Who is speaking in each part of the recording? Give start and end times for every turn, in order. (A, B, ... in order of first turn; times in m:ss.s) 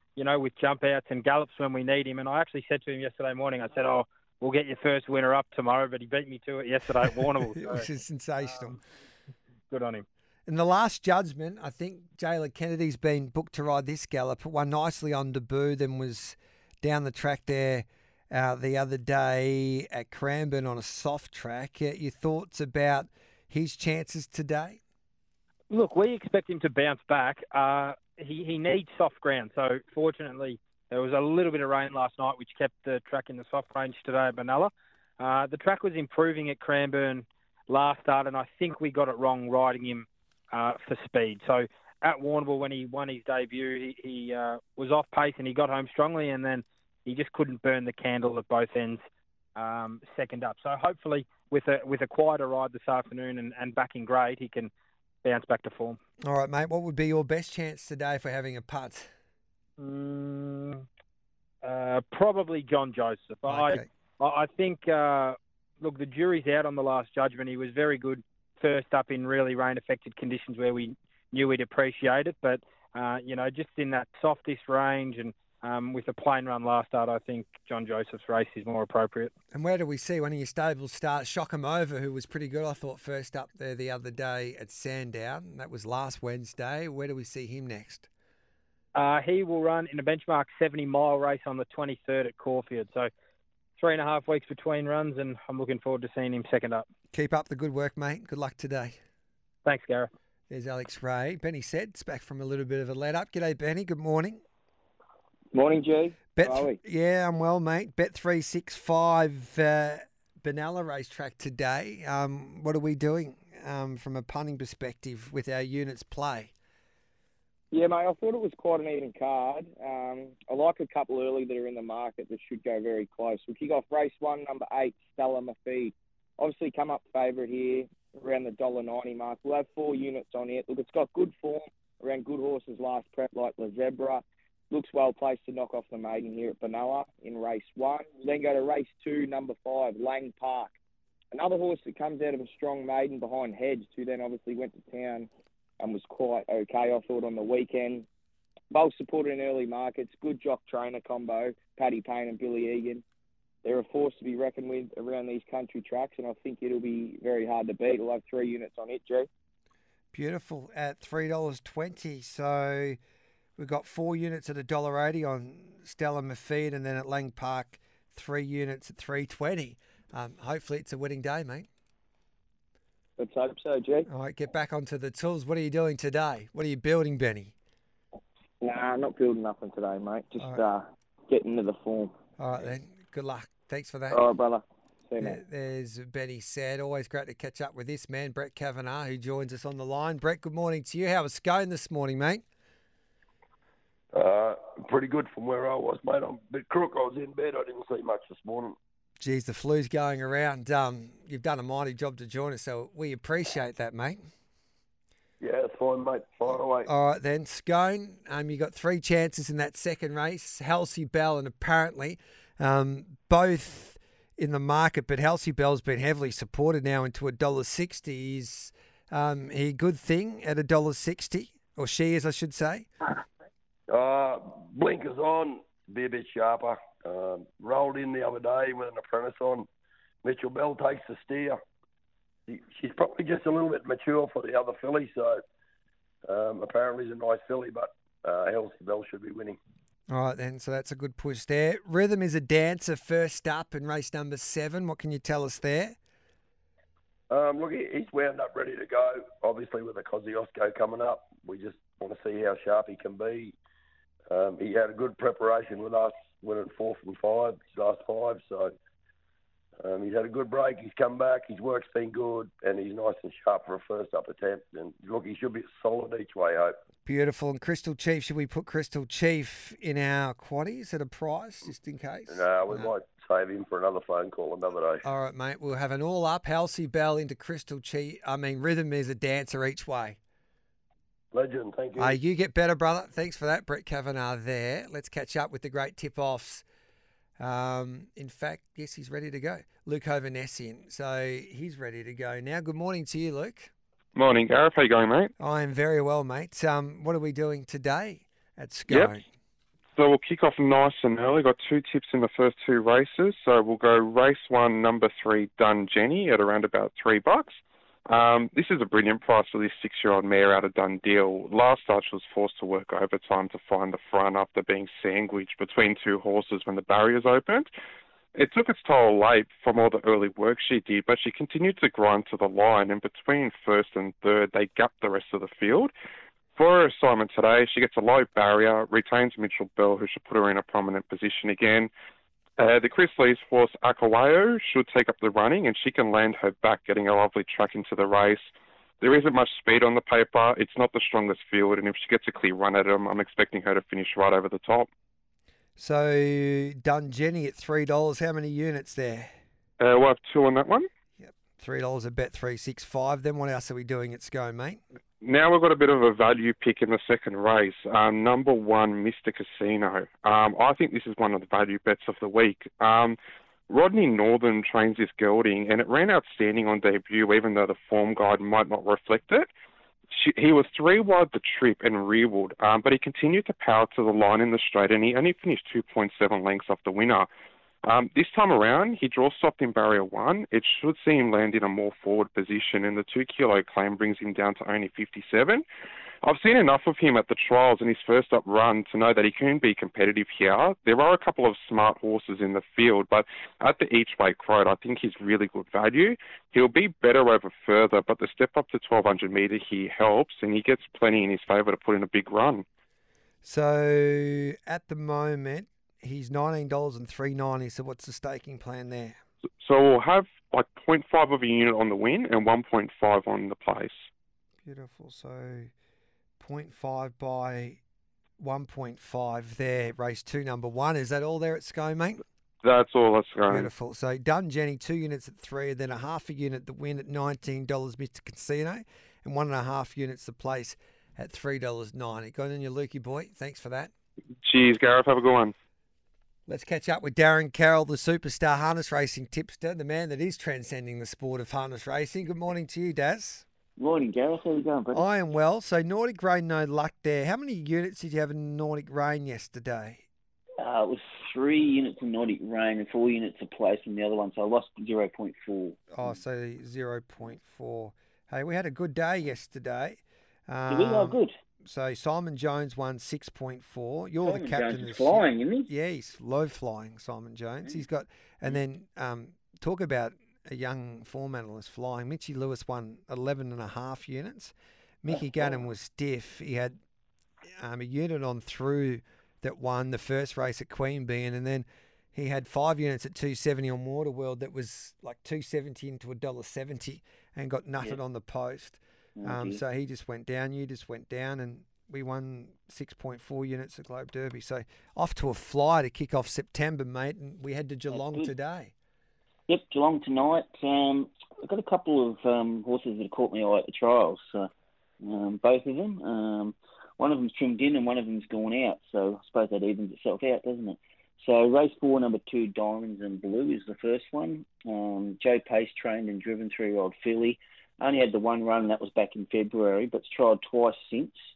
0:00.2-0:07.9 A
0:07.6-0:08.8 B
0:09.7-0:10.0 A
0:10.5-0:24.8 B
0:25.7-0:49.0 A
0:49.6-0:54.7 A
0:55.2-0:56.0 A
0:56.2-0:59.1 B
0:59.8-1:00.8 A
1:01.6-1:19.3 A
1:03.5-1:03.9 B
1:19.5-1:28.1 B
1:29.0-1:33.1 A
1:33.8-1:36.9 A
1:37.1-1:39.0 B
1:39.6-1:40.1 A
1:40.5-1:44.4 B
1:45.5-1:46.8 C
1:46.4-1:56.5 B
1:57.7-2:20.7 C
2:21.3-2:25.3 C
2:25.8-2:28.1 C
2:28.7-2:33.0 C
2:33.6-2:39.3 C
2:40.1-2:43.0 B
2:43.6-2:51.7 B
2:53.2-2:54.1 C
2:54.1-2:57.5 B
2:58.6-3:02.1 C
3:02.4-3:04.2 B
3:04.1-3:05.4 C
3:05.2-3:12.4 B
3:14.1-3:18.8 D
3:19.2-3:24.2 B
3:25.4-3:26.9 D
3:26.9-3:42.9 B
3:43.9-3:49.7 D
3:50.2-3:51.6 D
3:52.5-3:55.4 D
3:56.2-3:59.6 D
4:00.1-4:06.0 B
4:07.3-4:13.6 D
4:14.3-4:18.8 D
4:19.8-4:26.8 D
4:27.0-4:32.9 B
4:32.3-4:35.0 D
4:35.0-4:40.2 B
4:41.3-4:42.2 D
4:42.0-4:46.6 B
4:47.4-4:53.7 B
4:54.2-4:55.3 E
4:55.4-4:59.2 B
4:58.9-4:59.2 E
5:00.0-5:17.7 E
5:18.4-5:25.9 E
5:26.6-5:31.9 E
5:32.6-5:38.4 E
5:39.0-5:44.9 E
5:45.8-5:49.3 B
5:49.8-5:50.9 E
5:51.2-5:54.8 B
5:55.2-6:03.2 E
6:03.7-6:09.5 E
6:10.1-6:17.3 E
6:17.8-6:25.6 E
6:26.2-6:42.6 E
6:43.4-6:49.2 B
6:49.6-6:54.1 E
6:54.6-6:55.7 B
6:56.4-6:57.8 B
6:58.4-7:02.2 B
7:02.6-7:03.7 E
7:03.5-7:13.9 B
7:14.4-7:15.5 E
7:16.5-7:23.4 B
7:23.8-7:25.0 F
7:24.9-7:30.0 B
7:30.6-7:35.8 F
7:35.9-7:56.8 B
7:40.7-7:41.3 F
7:44.3-7:45.7 F
7:57.6-8:18.7 B
8:09.2-8:09.6 F
8:18.0-8:18.3 F
8:19.5-8:24.5 F
8:25.0-8:41.2 F